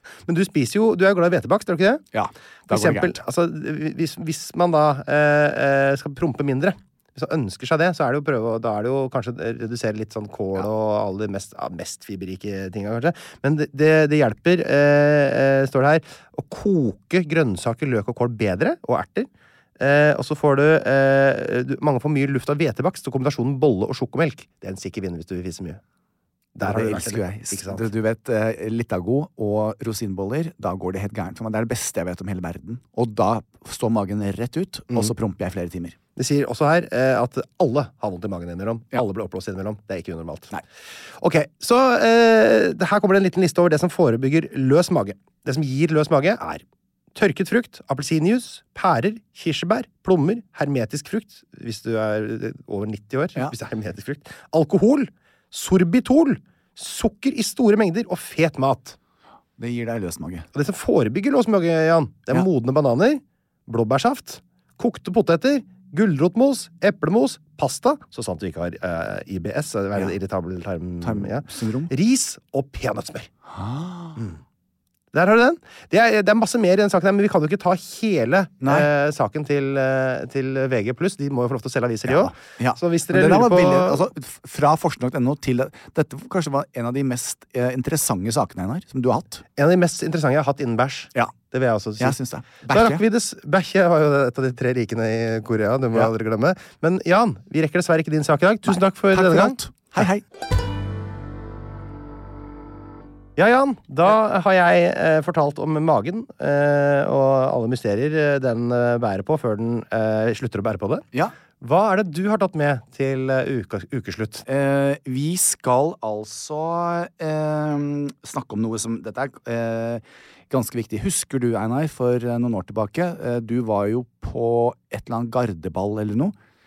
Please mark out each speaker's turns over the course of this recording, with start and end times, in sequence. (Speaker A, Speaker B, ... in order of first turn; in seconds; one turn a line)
Speaker A: 0.3-2.0
Speaker B: 2.1-3.2
Speaker A: 2.7-25.8
Speaker A: 26.6-27.9
Speaker B: 26.6-36.0
Speaker A: 36.2-46.6
Speaker A: 47.1-59.0
Speaker B: 59.6-60.5
Speaker A: 60.5-73.3
Speaker B: 71.0-71.9
Speaker B: 73.5-74.2
Speaker A: 75.1-84.0
Speaker B: 78.6-78.9
Speaker B: 82.1-89.5
Speaker A: 89.6-100.0
Speaker B: 92.0-93.0
Speaker B: 98.7-100.2
Speaker A: 103.4-111.1
Speaker A: 111.6-114.5
Speaker B: 114.5-126.3